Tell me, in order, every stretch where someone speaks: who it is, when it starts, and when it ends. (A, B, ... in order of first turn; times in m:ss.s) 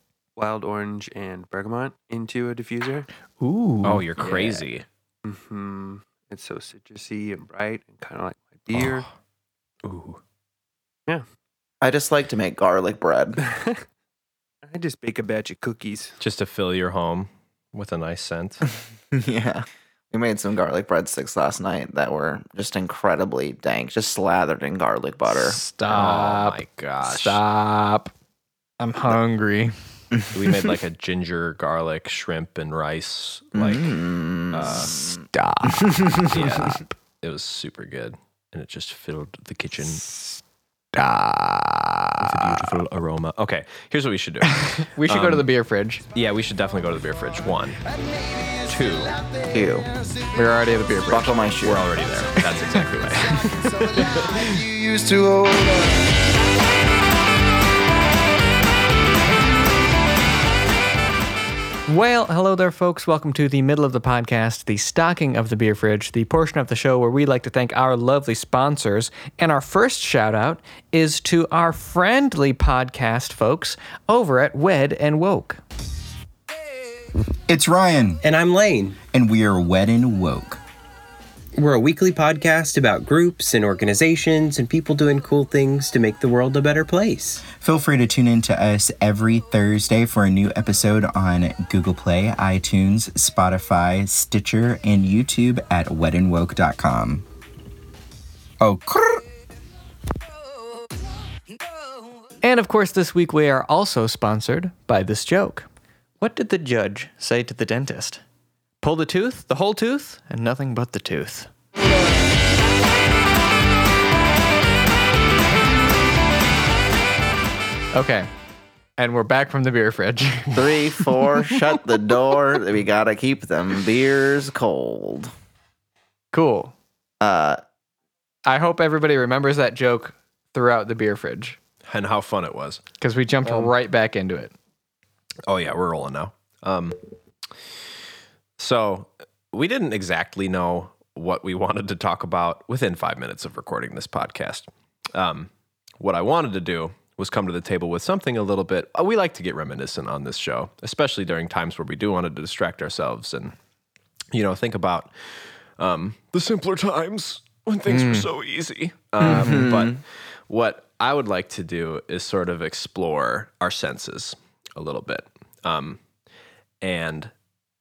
0:00.4-0:03.1 A
0:03.4-0:04.5 B
0:03.8-0:04.8 C
0:05.2-0:09.1 A
0:08.7-0:09.0 C
0:09.8-0:10.2 C
0:11.8-0:13.4 D
0:13.4-0:13.8 A
0:14.6-0:16.2 A
0:16.2-0:18.6 C
0:19.1-0:25.6 D
0:25.3-0:28.1 B
0:25.9-0:27.4 C
0:28.8-0:29.7 B
0:30.3-0:33.9 C
0:33.5-0:35.2 D
0:34.5-0:35.0 C
0:34.7-0:36.8 B
0:35.8-0:36.1 D
0:36.3-0:40.0 C
0:40.0-0:40.4 B
0:40.9-0:42.7 B
0:42.2-0:45.5 C
0:44.6-0:46.0 B
0:46.1-0:47.8 C
0:48.6-0:49.2 C
0:49.5-0:49.9 D
0:50.3-0:51.4 B
0:51.1-0:51.8 D
0:51.6-0:54.6 C
0:52.4-0:52.8 B
0:54.2-0:56.1 D
1:01.9-1:15.6 B
1:17.5-1:18.2 E
1:18.2-1:19.0 F
1:19.0-1:20.6 E
1:21.6-1:27.4 F
1:27.4-1:37.2 E
1:38.6-1:39.2 E
1:42.4-1:45.7 B
1:46.2-1:48.2 B
1:48.8-1:51.5 B
1:57.9-1:58.3 B
1:59.0-2:01.6 B
2:00.5-2:05.3 D
2:06.3-2:06.7 B
2:07.2-2:07.6 D
2:08.4-2:11.6 B
2:11.8-2:12.8 C
2:13.0-2:14.5 B
2:13.4-2:13.7 D
2:15.5-2:17.0 C
2:18.6-2:25.5 C
2:26.0-2:33.5 C
2:34.3-2:46.0 C
2:37.9-2:38.3 B
2:39.2-2:39.7 B
2:39.2-2:40.0 D
2:46.8-2:47.3 C